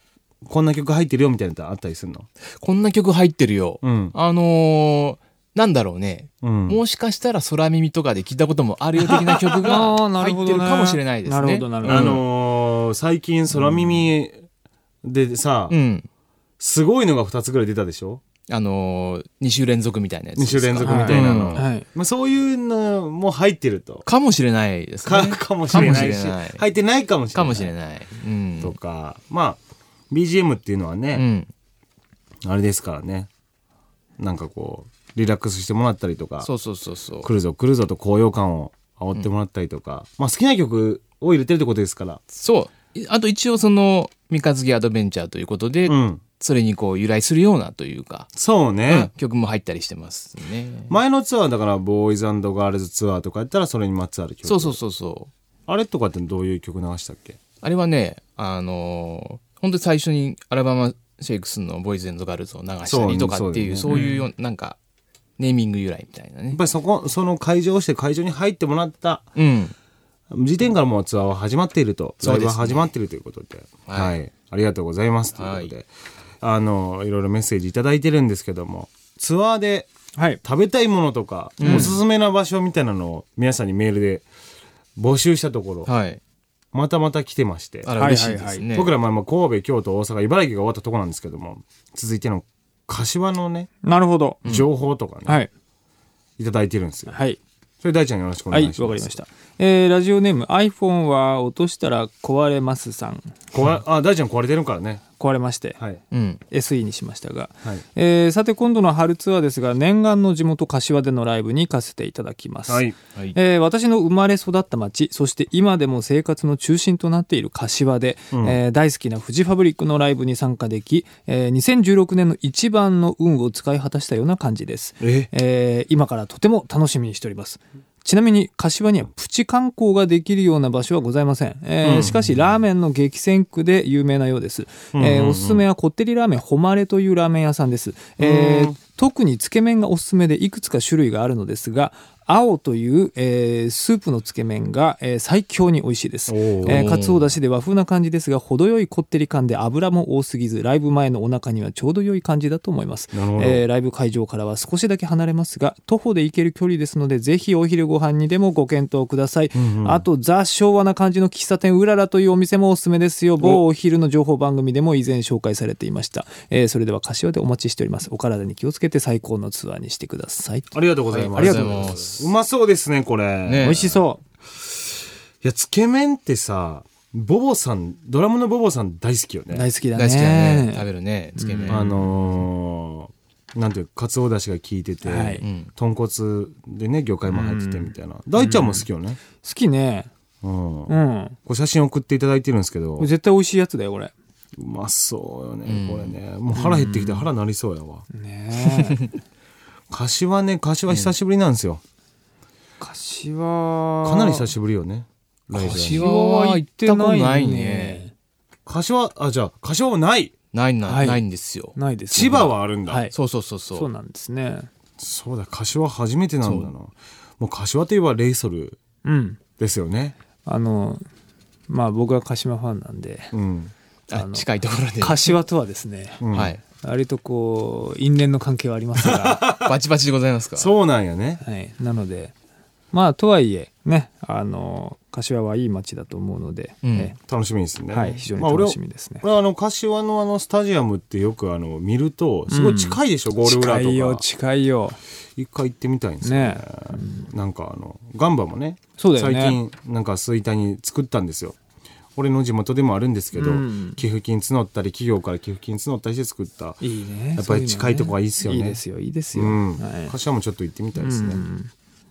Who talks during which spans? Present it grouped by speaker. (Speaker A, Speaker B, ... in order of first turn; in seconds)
Speaker A: 0.4-2.3, 3.8-4.1, 6.4-6.8, 9.0-9.6, 11.8-14.4, 15.1-15.8, 16.6-18.2, 20.4-24.1, 25.1-27.7, 28.6-31.3, 32.4-33.3, 34.2-36.5, 37.2-42.2, 45.9-46.2, 48.4-49.1, 50.9-54.8, 55.7-57.4, 62.9-63.9, 66.5-69.3, 70.3-75.9, 76.4-79.9, 80.4-84.3, 85.0-85.9, 86.7-87.9, 88.7-93.7, 94.5-95.4, 96.4-97.2, 97.8-99.2, 103.5-105.0, 112.7-113.0, 118.3-118.6, 125.0-125.3, 131.8-132.3, 134.9-135.7, 138.2-138.8, 146.3-146.9, 153.1-153.6, 159.5-160.1, 170.7-173.8, 175.4-179.7, 181.7-189.2, 190.4-193.1, 194.6-198.1, 199.9-201.8, 204.0-206.1, 208.7-210.3, 212.1-213.1, 215.0-218.8, 219.6-220.2, 223.3-223.7, 226.2-226.6, 229.1-229.7, 230.6-231.4, 237.3-244.2, 245.4-251.6, 252.2-256.8, 257.4-258.8, 259.3-261.4
Speaker B: 2.6-12.2, 15.7-16.1, 18.5-21.6, 24.1-26.6, 27.3-28.8, 31.1-31.5, 36.4-37.3, 42.4-48.3, 48.9-50.9, 54.5-55.3, 57.6-64.8, 65.4-66.6, 69.4-69.7, 72.2-72.9, 73.9-74.2, 75.4-75.7, 81.6-82.0, 85.9-86.2, 87.8-88.9, 106.1-106.4, 146.7-147.3, 171.1-172.3, 173.5-174.0, 179.9-182.1, 185.4-185.7, 195.7-196.2, 205.7-208.0, 210.5-211.8, 213.1-213.9, 216.4-216.7, 224.1-225.4, 226.3-226.6, 229.6-230.7, 236.8-237.1
Speaker C: 9.6-12.2, 20.8-21.9, 25.7-26.1, 63.9-64.2, 81.6-81.9, 88.0-88.6, 93.8-94.4, 97.1-97.4, 98.5-103.3, 105.2-105.8, 106.5-171.9, 173.6-174.2, 179.5-180.8, 181.4-182.0, 185.0-185.4, 187.3-190.1, 190.9-191.4, 193.0-194.1, 196.6-197.2, 198.1-199.1, 202.8-204.5, 205.6-208.1, 210.9-211.2, 211.8-213.1, 213.7-214.7, 219.1-219.4, 220.4-221.0, 221.7-223.3, 224.1-224.4, 225.0-226.2, 226.8-229.5, 231.4-232.3, 232.9-237.2, 237.9-239.2, 242.5-245.0, 246.2-247.3, 249.0-249.6, 253.4-254.0, 256.8-260.1, 261.0-261.7